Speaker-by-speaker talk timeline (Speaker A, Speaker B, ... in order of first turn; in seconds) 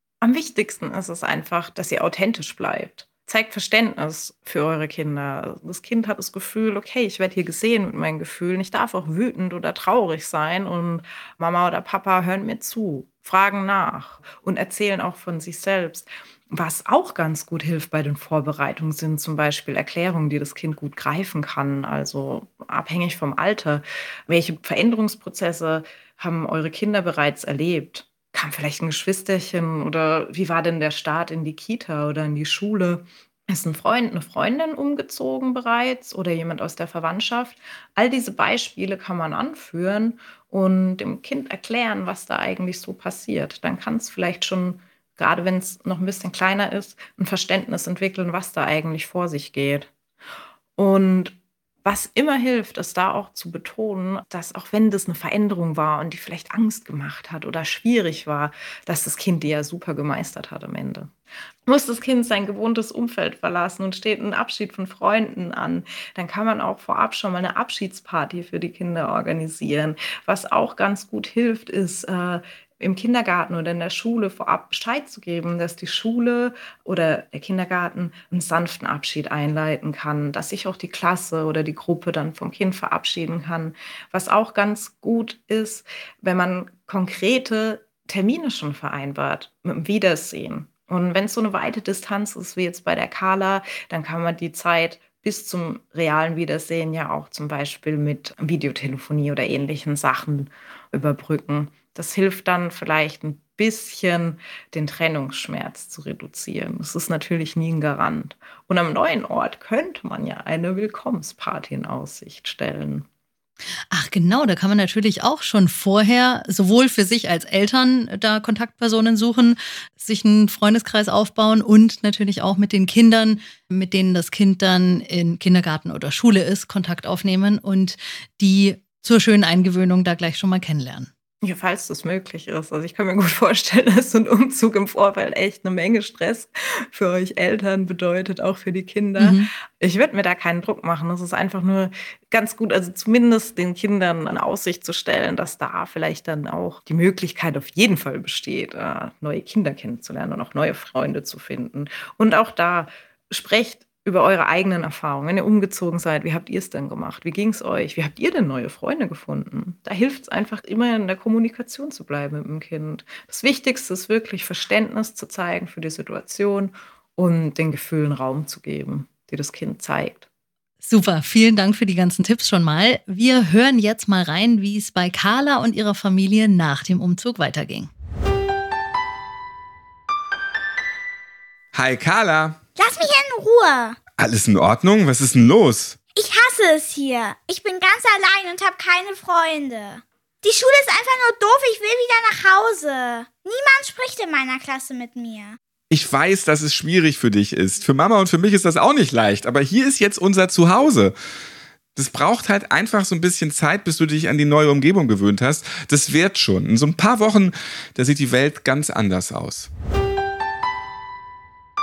Speaker A: 0.2-49.9, 50.8-61.1, 61.6-113.0, 131.4-170.2
Speaker B: 113.9-131.1, 139.2-139.5, 170.8-177.9
Speaker C: 181.7-182.6, 184.2-185.9, 195.9-201.1, 201.9-209.7
Speaker D: 182.8-184.0, 186.2-195.6